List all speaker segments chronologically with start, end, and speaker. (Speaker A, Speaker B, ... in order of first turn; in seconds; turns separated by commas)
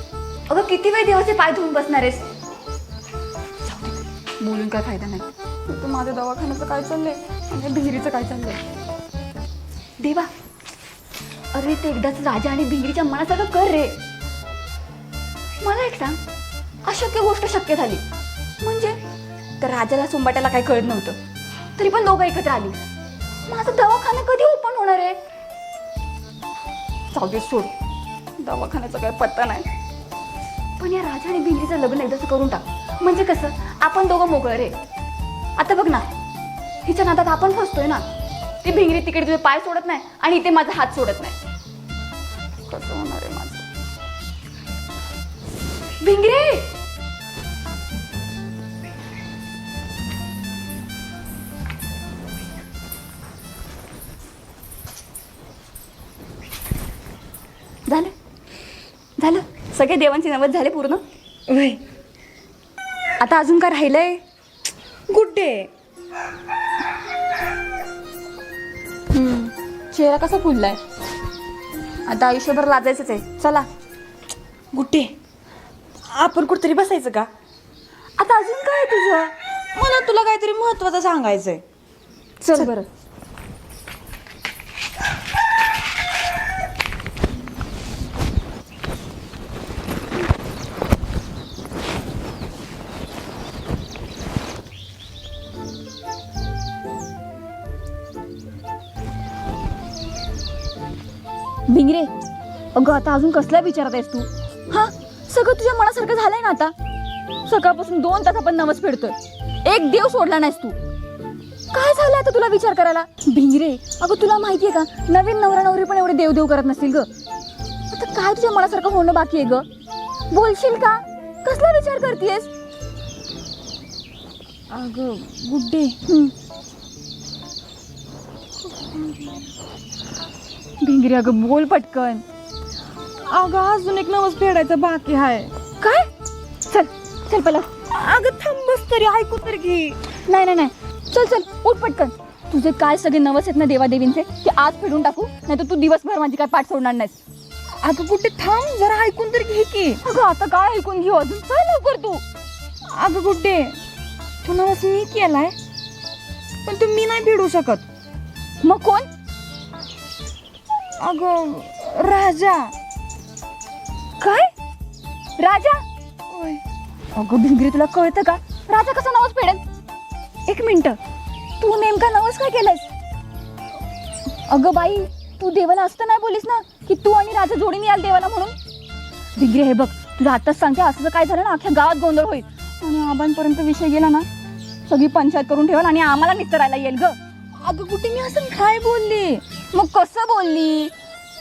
Speaker A: 0.5-2.2, Speaker A: 3.6-8.6, Speaker A: 10.0-10.3, Speaker A: 11.5-14.0, Speaker A: 15.6-16.2, Speaker A: 16.8-18.0, Speaker A: 18.6-18.9, Speaker A: 19.6-21.2, Speaker A: 21.8-22.8, Speaker A: 23.5-25.2, Speaker A: 27.1-27.7, Speaker A: 28.4-29.7, Speaker A: 30.8-34.7, Speaker A: 35.6-36.1, Speaker A: 36.8-38.0, Speaker A: 38.6-41.4, Speaker A: 42.7-43.7, Speaker A: 46.0-46.7, Speaker A: 57.9-58.1, Speaker A: 59.2-61.0, Speaker B: 61.5-61.8, Speaker A: 63.2-64.2, Speaker B: 65.1-65.7, Speaker A: 69.1-70.8, Speaker A: 72.1-73.7, Speaker B: 74.7-75.1, Speaker B: 76.1-77.3, Speaker A: 78.2-79.3, Speaker B: 79.7-81.6, Speaker A: 82.4-82.9, Speaker A: 101.7-102.1, Speaker A: 102.7-106.7, Speaker A: 107.5-110.8, Speaker A: 111.7-117.1, Speaker A: 117.9-119.7, Speaker A: 120.3-122.5, Speaker B: 124.7-125.9, Speaker A: 126.1-126.3, Speaker B: 128.7-129.2, Speaker A: 130.8-132.2, Speaker B: 133.3-135.5, Speaker A: 135.8-136.1, Speaker A: 136.7-137.7, Speaker B: 137.9-139.9, Speaker A: 140.3-147.2, Speaker B: 147.8-150.0, Speaker A: 150.0-152.2, Speaker B: 152.9-153.8, Speaker B: 154.4-155.5, Speaker B: 156.6-157.8, Speaker A: 158.6-159.1, Speaker B: 161.0-162.7, Speaker A: 164.2-164.5, Speaker A: 165.4-165.8, Speaker B: 166.3-166.6, Speaker A: 167.2-169.6, Speaker A: 170.5-171.0, Speaker A: 171.6-172.9, Speaker A: 174.5-178.5, Speaker A: 179.4-184.2, Speaker A: 184.9-187.2, Speaker B: 187.6-189.4, Speaker A: 189.7-190.9